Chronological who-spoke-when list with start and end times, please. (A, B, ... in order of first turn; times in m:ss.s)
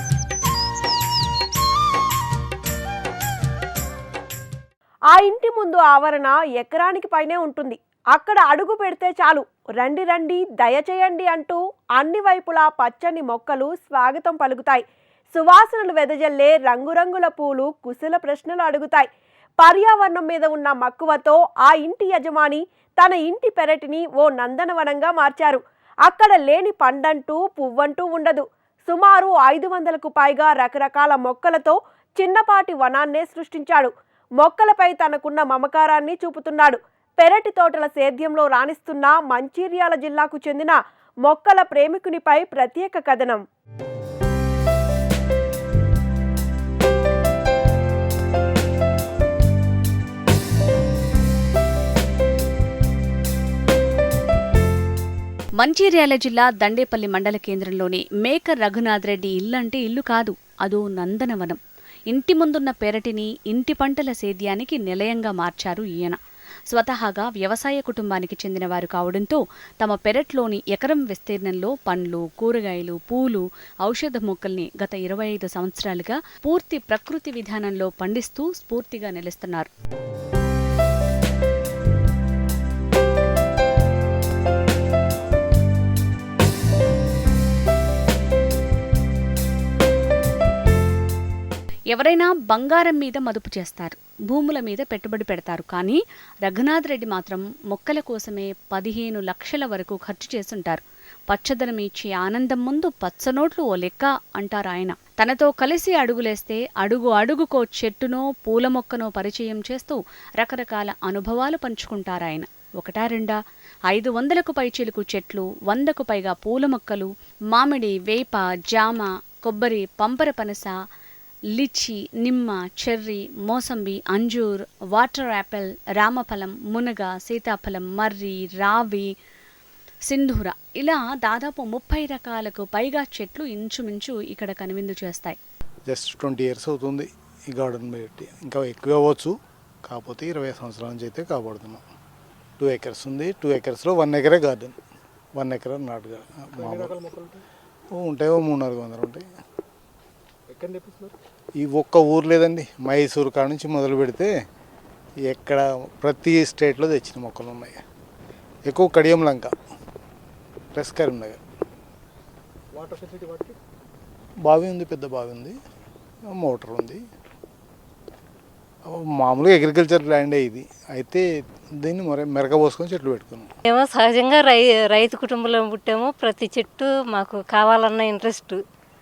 0:05.1-0:19.1 A
0:19.6-0:43.4 A
0:55.6-1:19.7 B
1:31.9-1:53.4 B
1:53.9-2:00.7 B
2:01.5-2:09.1 B
2:10.1-2:15.4 B
2:15.9-2:19.3 C
2:19.9-2:21.8 C
2:22.6-2:24.7 C
2:25.4-2:27.0 C
2:26.6-2:27.4 D
2:27.9-2:29.2 C
2:30.5-2:31.1 D
2:31.6-2:34.3 C
2:35.3-2:37.8 C
2:38.7-2:39.5 C
2:40.7-2:41.4 C
2:42.7-2:43.6 D
2:44.4-2:45.5 C
2:46.3-2:47.0 C
2:48.9-2:51.2 C
2:51.8-2:53.5 C
2:53.7-2:58.6 E